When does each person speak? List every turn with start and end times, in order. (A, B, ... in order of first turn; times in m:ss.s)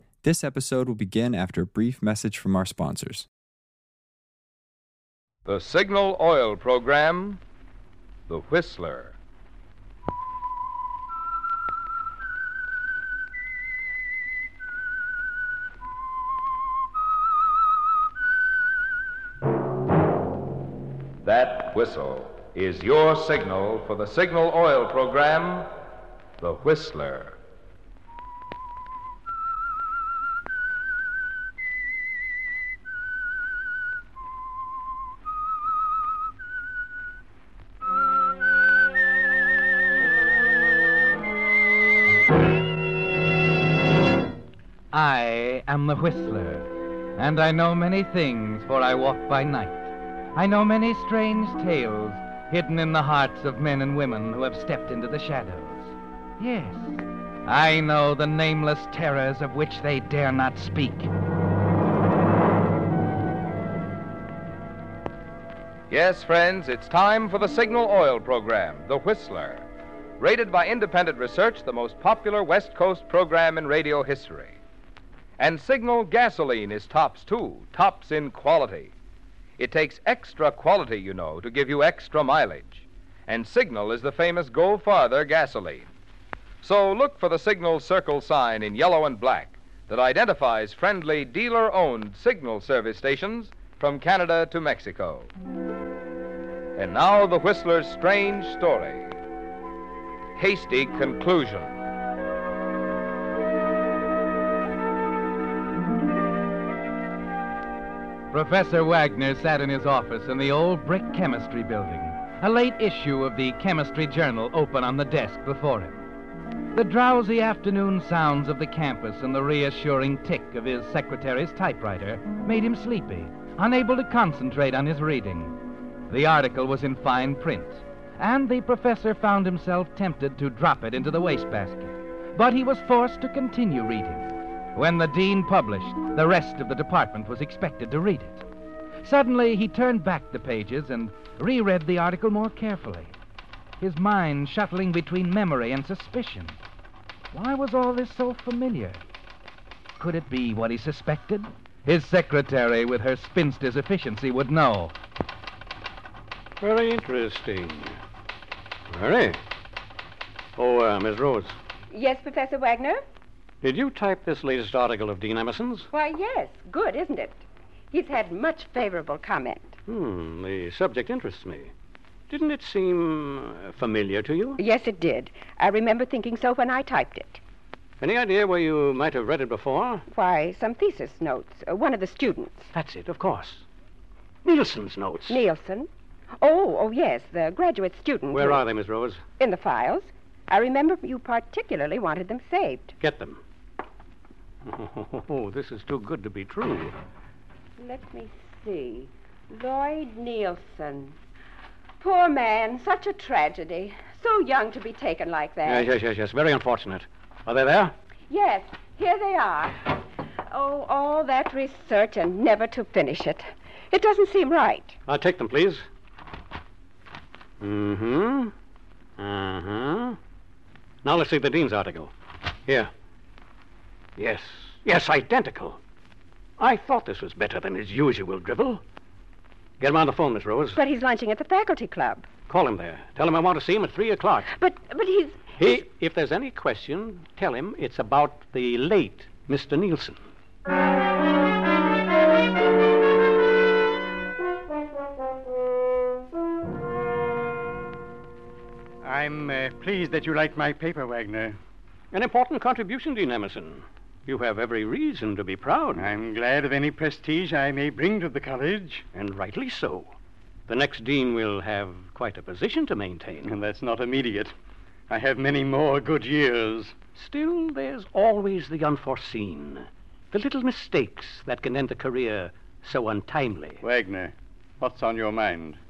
0:00.2-0:03.3 A
0:05.4-0:07.4 B
0:08.3-0:09.2 B
0:21.2-0:25.7 B
0:26.4-0:27.4 B
0:44.9-1:01.1 C
1:05.9-1:09.7 B
1:10.2-1:14.6 B
1:15.4-1:18.9 B
1:19.6-1:25.9 B
1:26.6-1:35.3 B
1:36.8-1:39.2 B
1:40.4-1:41.8 B
1:48.3-1:56.1 C
1:56.8-2:18.4 C
2:19.0-2:23.2 C
2:23.8-2:26.6 C
2:27.3-2:29.0 C
2:30.0-2:34.9 C
2:36.6-2:38.0 D
2:38.9-2:39.4 D
2:40.6-2:41.6 D
2:41.9-2:43.0 E
2:43.6-2:45.9 D
2:45.9-2:49.8 E
2:49.9-2:51.7 D
2:52.3-2:54.6 D
2:54.6-2:57.4 E
2:58.0-3:00.0 D
3:00.1-3:02.7 E
3:02.7-3:03.6 D
3:04.4-3:05.4 D
3:05.3-3:05.9 E
3:06.4-3:08.6 E
3:08.3-3:09.2 D
3:09.4-3:13.0 E
3:13.0-3:13.4 D
3:14.6-3:16.9 D
3:17.8-3:21.2 E
3:22.0-3:25.9 E
3:25.6-3:27.9 D
3:28.3-3:35.0 E
3:35.1-3:35.9 D
3:37.6-3:38.5 D
3:39.2-3:40.2 D
3:41.0-3:42.1 D
3:44.2-3:45.8 D
3:46.6-3:48.8 D
3:49.8-3:50.8 D
3:50.8-3:52.3 E
3:52.5-3:54.5 D
3:54.5-3:55.4 E
3:55.6-4:00.2 D
4:09.0-4:11.6 F
4:12.1-4:16.1 D
4:15.9-4:19.0 F
4:19.1-4:20.1 D
4:20.7-4:23.6 D
4:23.4-4:24.5 F
4:25.1-4:27.0 F
4:27.2-4:33.8 D
4:33.8-4:35.8 F